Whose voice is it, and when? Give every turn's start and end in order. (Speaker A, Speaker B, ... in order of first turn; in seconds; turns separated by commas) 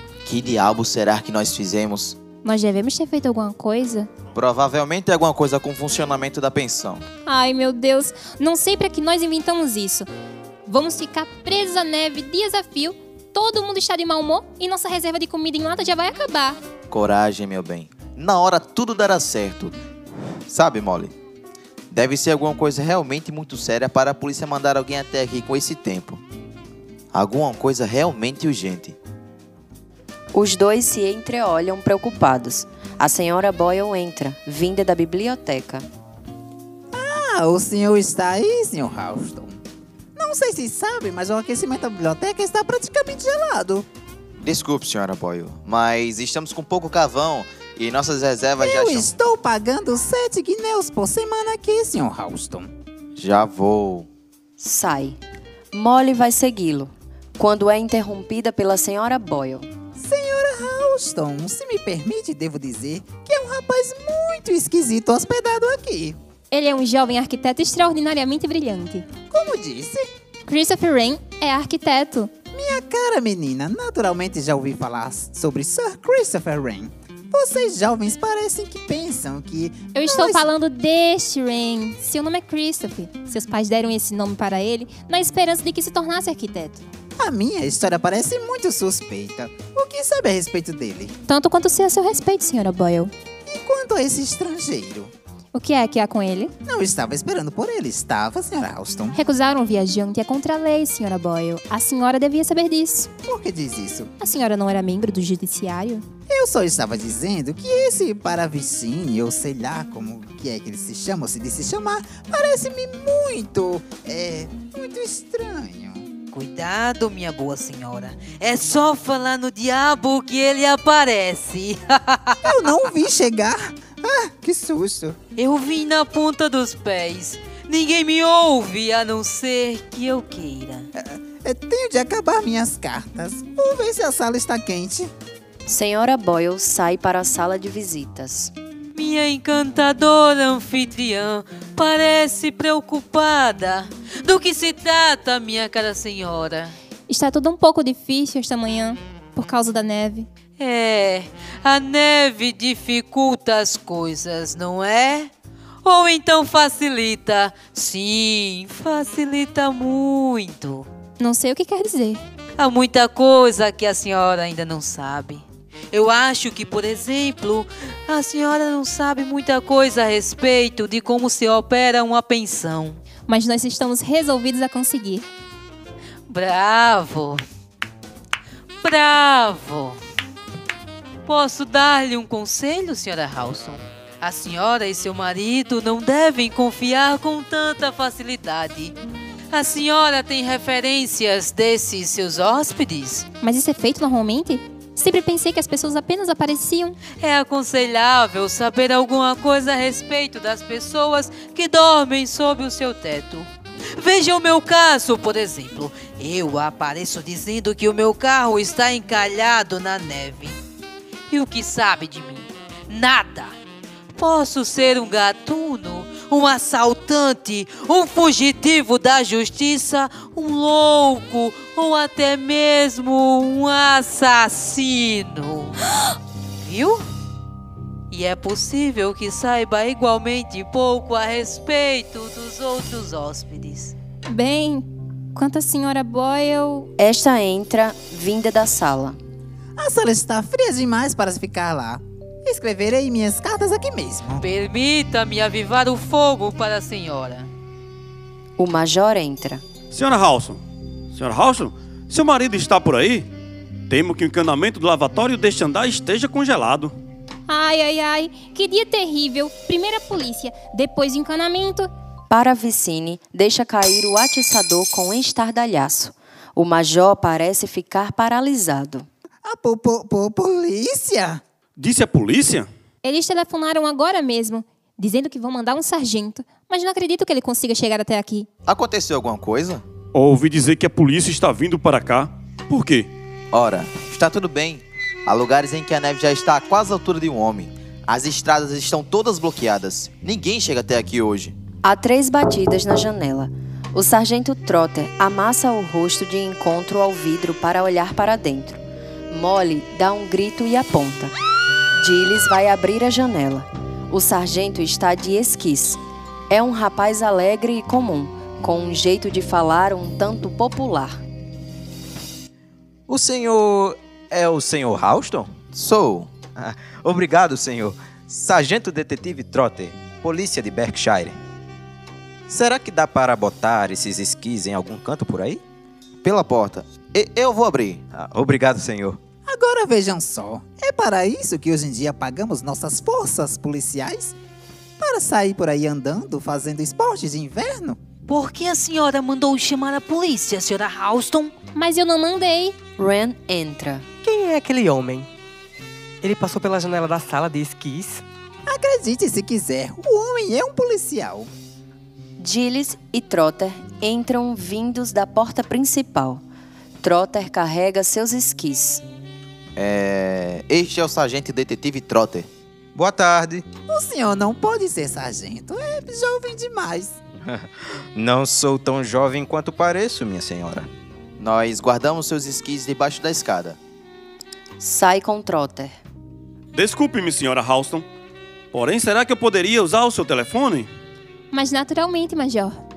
Speaker A: 0.2-2.2, Speaker B: 2.4-4.1, Speaker A: 4.3-7.1, Speaker B: 7.3-10.1, Speaker B: 10.7-16.6, Speaker A: 16.9-19.8, Speaker A: 20.5-21.1, Speaker A: 21.9-26.2, Speaker A: 27.1-29.0, Speaker C: 30.3-35.9, Speaker D: 36.9-39.6, Speaker D: 40.1-43.9, Speaker A: 44.4-49.1, Speaker D: 48.6-52.7, Speaker A: 53.2-54.1, Speaker C: 54.6-55.2, Speaker C: 55.7-59.7, Speaker D: 60.0-66.2, Speaker B: 66.5-69.1, Speaker D: 69.3-70.1, Speaker B: 70.5-72.3, Speaker D: 72.5-80.5, Speaker B: 79.9-86.8, Speaker D: 87.2-91.1, Speaker B: 91.3-93.1, Speaker D: 93.5-95.1, Speaker B: 95.5-96.5, Speaker D: 96.7-99.2, Speaker B: 99.1-103.1, Speaker D: 103.2-104.1, Speaker B: 104.2-106.0, Speaker D: 106.3-116.1, Speaker E: 116.3-122.6, Speaker D: 122.4-125.2, Speaker E: 125.4-130.9, Speaker D: 130.9-135.1, Speaker C: 135.7-138.5, Speaker E: 138.9-146.8, Speaker B: 147.1-150.3, Speaker E: 150.6-155.3, Speaker E: 155.8-160.9, Speaker B: 161.2-162.2, Speaker E: 162.6-173.0, Speaker B: 173.3-175.3, Speaker E: 176.3-177.4, Speaker E: 178.8-180.0, Speaker E: 181.3-188.9, Speaker E: 189.5-193.3, Speaker B: 193.4-197.0, Speaker E: 197.2-210.6, Speaker E: 211.3-213.6, Speaker E: 214.1-225.8, Speaker E: 226.6-227.0, Speaker E: 228.1-233.9, Speaker B: 234.3-236.9, Speaker C: 237.0-239.2, Speaker D: 239.8-244.4, Speaker E: 244.4-247.5, Speaker C: 248.6-249.6, Speaker F: 249.9-250.6, Speaker F: 251.1-253.3, Speaker F: 253.9-256.9, Speaker B: 257.5-261.9, Speaker C: 262.3-269.1, Speaker D: 269.4-271.4, Speaker F: 271.8-272.7, Speaker B: 273.0-278.5, Speaker A: 278.6-279.8, Speaker F: 280.1-283.1, Speaker A: 283.5-291.6, Speaker C: 291.8-301.3, Speaker C: 302.0-311.2, Speaker G: 313.1-315.6, Speaker A: 315.7-316.3, Speaker G: 316.6-321.4, Speaker G: 322.5-325.6, Speaker A: 326.2-328.0, Speaker G: 328.1-329.2, Speaker D: 329.5-334.4, Speaker D: 335.0-338.0, Speaker E: 338.3-341.5, Speaker B: 341.8-342.8, Speaker C: 343.0-344.1, Speaker H: 344.2-345.3, Speaker H: 346.2-348.2, Speaker D: 348.6-351.5, Speaker C: 352.4-356.4, Speaker C: 357.0-359.0, Speaker A: 359.8-362.5, Speaker G: 362.9-363.7, Speaker D: 363.9-367.2, Speaker G: 367.4-370.9, Speaker A: 371.4-373.8, Speaker C: 374.8-376.0, Speaker F: 376.7-378.1, Speaker F: 378.7-380.9, Speaker B: 381.5-382.8